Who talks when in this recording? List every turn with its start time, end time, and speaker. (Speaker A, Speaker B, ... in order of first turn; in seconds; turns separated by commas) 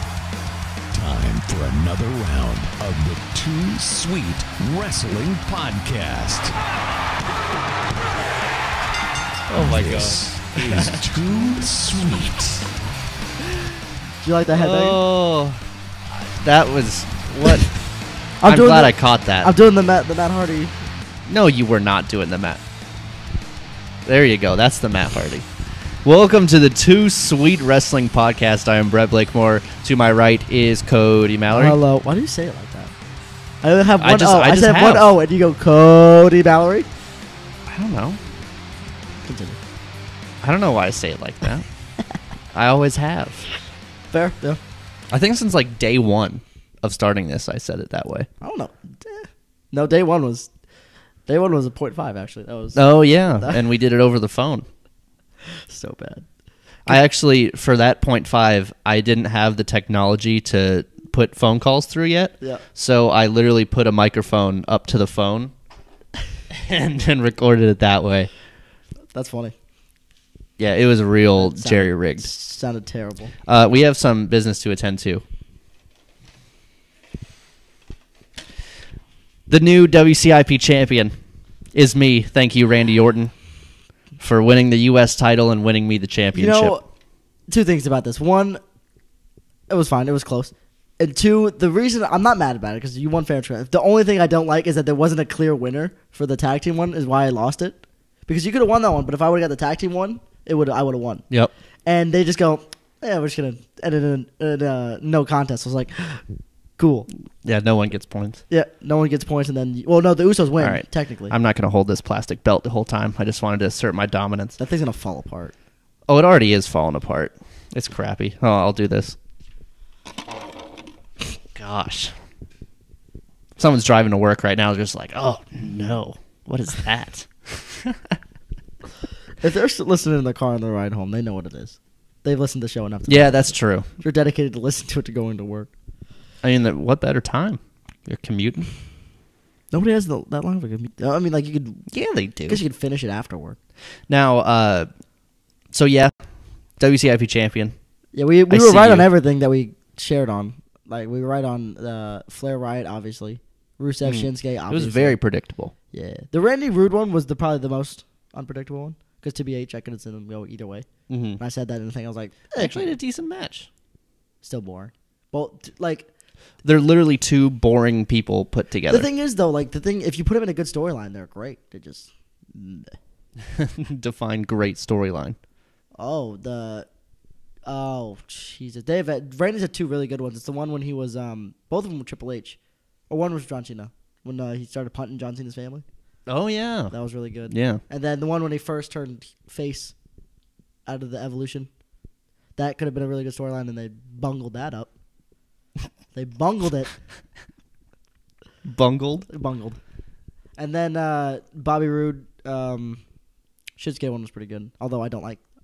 Speaker A: 0.9-6.5, Speaker B: 9.5-11.0, Speaker A: 9.5-12.7, Speaker C: 14.2-15.0, Speaker B: 14.5-15.7, Speaker B: 16.2-17.8, Speaker C: 18.4-20.7, Speaker B: 18.4-19.5, Speaker B: 21.2-22.6, Speaker B: 24.0-31.8, Speaker C: 31.5-32.9, Speaker C: 33.6-36.9, Speaker B: 34.0-35.1, Speaker B: 37.6-38.2, Speaker C: 39.2-39.6, Speaker B: 40.4-41.7, Speaker B: 42.5-43.5, Speaker C: 44.1-44.6, Speaker B: 45.1-48.3, Speaker C: 48.4-50.5, Speaker C: 51.2-53.6, Speaker B: 52.7-54.6, Speaker C: 55.6-56.3, Speaker B: 56.9-65.5, Speaker B: 66.5-68.3, Speaker C: 69.1-69.5, Speaker B: 70.6-72.3, Speaker C: 71.4-73.3, Speaker B: 73.5-75.2, Speaker B: 79.5-81.2, Speaker B: 81.7-83.6, Speaker B: 84.2-86.8, Speaker C: 86.3-86.9, Speaker C: 87.5-88.6, Speaker C: 89.7-101.2, Speaker C: 101.8-106.2, Speaker C: 106.8-107.1, Speaker B: 107.4-108.4, Speaker C: 108.5-111.3, Speaker B: 110.6-114.6, Speaker C: 114.6-115.5, Speaker B: 116.1-119.2, Speaker B: 121.5-122.2, Speaker B: 123.5-128.2, Speaker C: 129.4-135.7, Speaker B: 133.1-133.9, Speaker B: 136.4-138.7, Speaker C: 139.7-141.9, Speaker B: 141.9-142.6, Speaker C: 142.4-143.6, Speaker B: 144.1-144.9, Speaker B: 145.7-147.8, Speaker C: 148.1-155.2, Speaker B: 148.5-149.1, Speaker B: 154.0-155.7, Speaker C: 155.9-162.9, Speaker B: 161.1-161.4, Speaker B: 162.6-163.7, Speaker C: 164.4-166.1, Speaker B: 166.6-169.1, Speaker C: 168.9-173.0, Speaker B: 173.5-175.4, Speaker C: 176.0-176.9, Speaker C: 177.7-185.8, Speaker B: 186.3-186.9, Speaker C: 186.9-189.9, Speaker B: 187.5-187.8, Speaker C: 190.8-191.7, Speaker C: 192.6-194.9, Speaker C: 196.1-197.0, Speaker B: 198.6-199.3, Speaker C: 199.3-199.8, Speaker C: 200.6-203.0, Speaker C: 203.8-205.4